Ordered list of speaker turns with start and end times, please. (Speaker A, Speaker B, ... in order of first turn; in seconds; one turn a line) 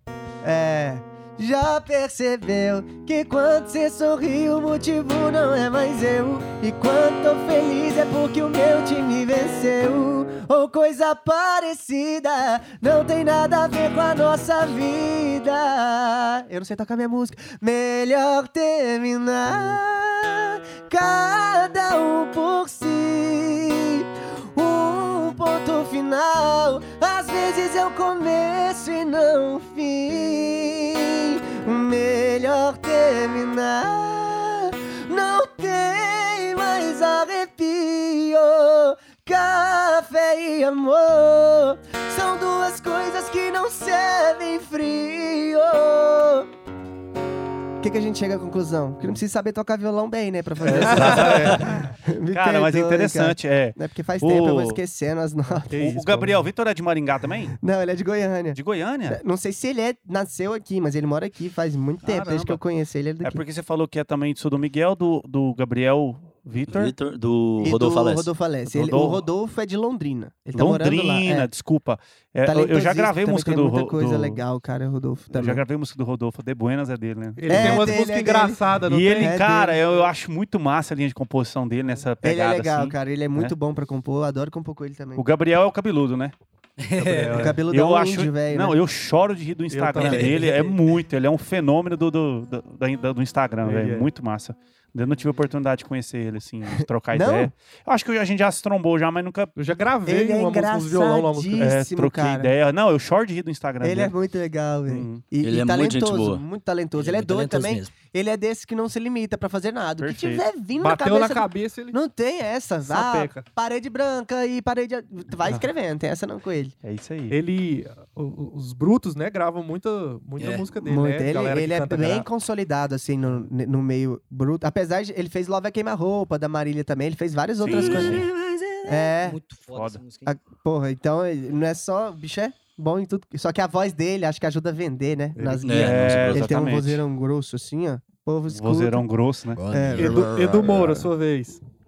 Speaker A: 0.4-46.5
Speaker A: 47.8-55.7
Speaker B: 50.6-54.8
Speaker C: 50.8-51.6
Speaker C: 55.7-56.5
Speaker B: 55.8-57.5
Speaker A: 57.6-63.4
Speaker B: 58.5-59.2
Speaker B: 62.0-62.6
Speaker B: 63.2-66.9
Speaker D: 66.7-68.3
Speaker A: 67.6-71.5
Speaker B: 68.7-69.2
Speaker B: 70.5-74.4
Speaker A: 72.4-75.6
Speaker B: 75.3-78.0
Speaker C: 77.4-79.4
Speaker A: 77.5-78.6
Speaker B: 78.8-83.5
Speaker A: 79.2-79.8
Speaker A: 82.2-85.2
Speaker B: 85.2-86.3
Speaker E: 86.8-87.6
Speaker C: 87.0-87.6
Speaker A: 87.3-88.8
Speaker B: 87.7-99.5
Speaker C: 89.7-90.8
Speaker C: 93.6-94.1
Speaker A: 97.1-97.5
Speaker C: 99.5-101.8
Speaker A: 100.0-102.5
Speaker B: 101.6-104.1
Speaker A: 103.8-116.7
Speaker B: 104.9-105.2
Speaker D: 105.4-106.4
Speaker E: 107.0-107.9
Speaker B: 110.0-110.4
Speaker C: 110.8-112.0
Speaker C: 112.8-113.5
Speaker B: 116.8-117.4
Speaker C: 117.3-122.2
Speaker E: 120.4-120.7
Speaker A: 120.8-128.2
Speaker B: 127.6-128.2
Speaker E: 127.8-130.3
Speaker A: 128.9-129.4
Speaker B: 129.7-130.0
Speaker A: 130.2-139.1
Speaker C: 135.4-135.7
Speaker D: 135.6-136.6
Speaker B: 135.7-137.0
Speaker B: 138.5-139.6
Speaker E: 139.6-140.3
Speaker A: 139.7-140.8
Speaker C: 139.9-141.6